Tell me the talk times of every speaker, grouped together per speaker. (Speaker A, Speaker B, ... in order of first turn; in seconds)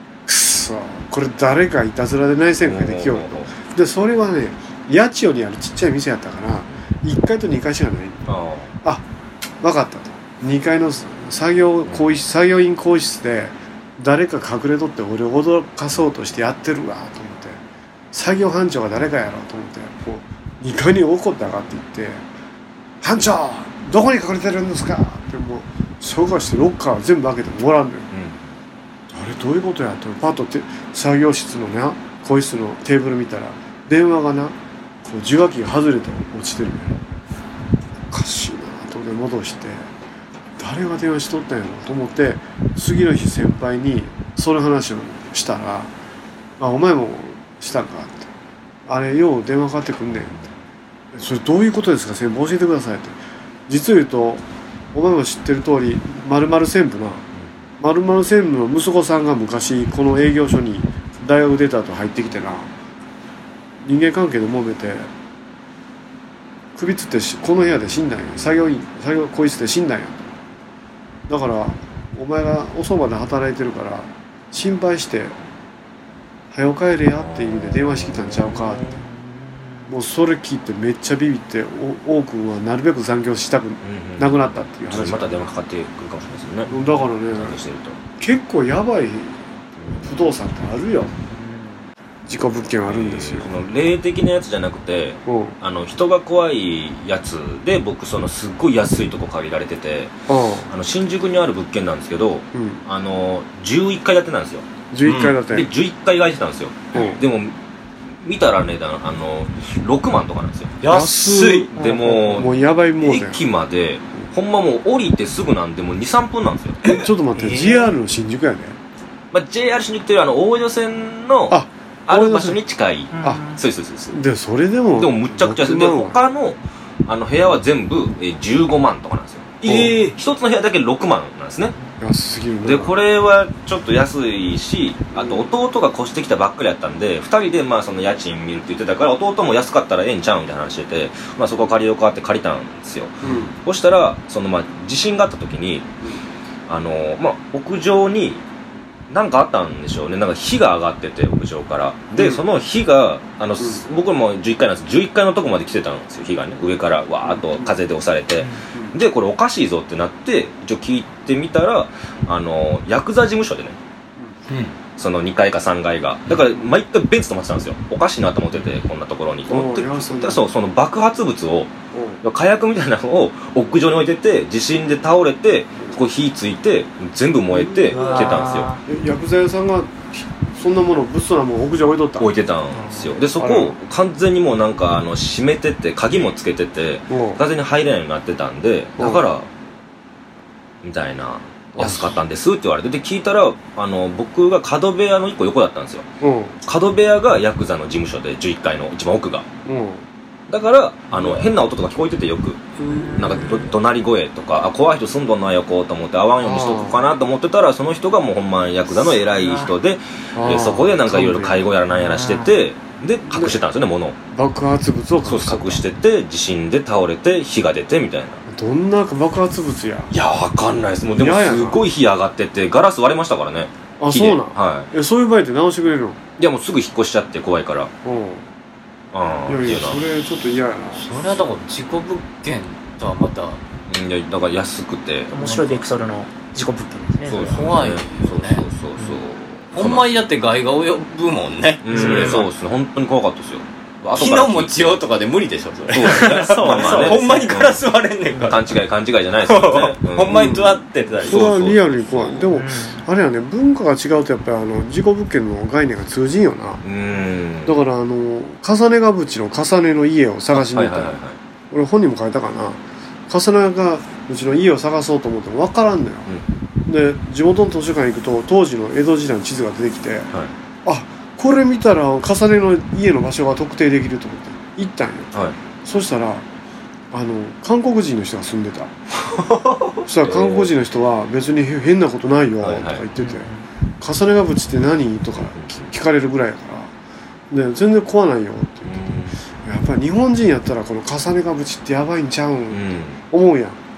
Speaker A: 0.3-9.1, 9.6-22.3, 23.0-28.1, 29.1-37.0, 38.1-39.9, 40.6-45.9, 46.6-48.3, 48.9-50.4, 51.1-53.2, 53.7-57.3, 57.8-62.7, 63.8-65.1, 66.8-70.3, 71.3-75.4, 76.5-79.0, 79.9-85.5, 86.7-87.6, 88.2-89.4, 89.9-91.1, 92.2-93.6, 95.3-95.6, 100.3-100.7, 102.5-102.8, 104.9-105.7, 106.9-107.2, 110.8-113.4, 116.9-118.8, 121.5-122.6, 124.1-126.2, 129.7-130.1, 132.0-132.9, 135.2-135.5, 143.2-143.5, 152.2-152.4, 153.6-153.8, 157.3-157.7, 169.5-170.4, 171.9-172.2, 177.5-182.3, 183.3-183.8, 187.1-187.4, 189.0-189.2, 191.7-192.2, 196.2-196.6, 199.7-200.1, 201.1-201.5, 206.4-207.0, 210.3-211.7, 213.3-213.6, 214.3-215.8, 218.5-220.1, 221.1-221.8, 224.0-226.2, 228.0-228.5, 229.5-231.1, 250.3-256.8, 257.6-261.2, 261.7-266.3, 266.9-270.3, 270.9-276.5, 277.1-278.9, 280.1-283.5, 284.0-286.9, 287.5-293.8
Speaker B: 2.6-3.5, 8.3-8.7, 28.1-28.4, 50.2-50.5, 83.8-86.7, 87.3-88.0, 89.8-90.3, 92.8-100.1, 100.7-104.7, 105.5-107.6, 108.2-110.8, 111.7-116.8, 119.3-124.2, 124.9-131.8, 132.7-145.9, 146.7-148.4, 149.1-163.8, 165.0-178.7, 182.2-189.5, 190.8-196.1, 196.7-199.5, 200.5-214.2, 215.2-218.4, 220.1-224.9, 226.4-227.9, 229.1-230.0, 233.9-235.7, 237.3-240.1, 241.8-245.0, 245.9-247.8, 248.5-250.6, 251.2-252.5, 256.8-257.8, 260.5-261.4, 279.3-280.7, 282.6-283.0, 285.4-285.9, 288.9-289.4, 292.7-293.2
Speaker C: 86.7-86.9, 91.3-91.8, 123.1-123.6, 177.9-178.8, 202.8-203.7, 209.4-209.7, 212.0-212.5, 235.3-237.7, 241.9-242.5, 246.1-247.5, 252.5-253.1, 283.2-283.6
Speaker D: 105.0-105.4, 110.8-111.7, 116.8-117.8, 164.5-164.7, 230.9-233.6, 237.5-238.7, 239.7-242.5, 244.2-248.8, 249.4-251.5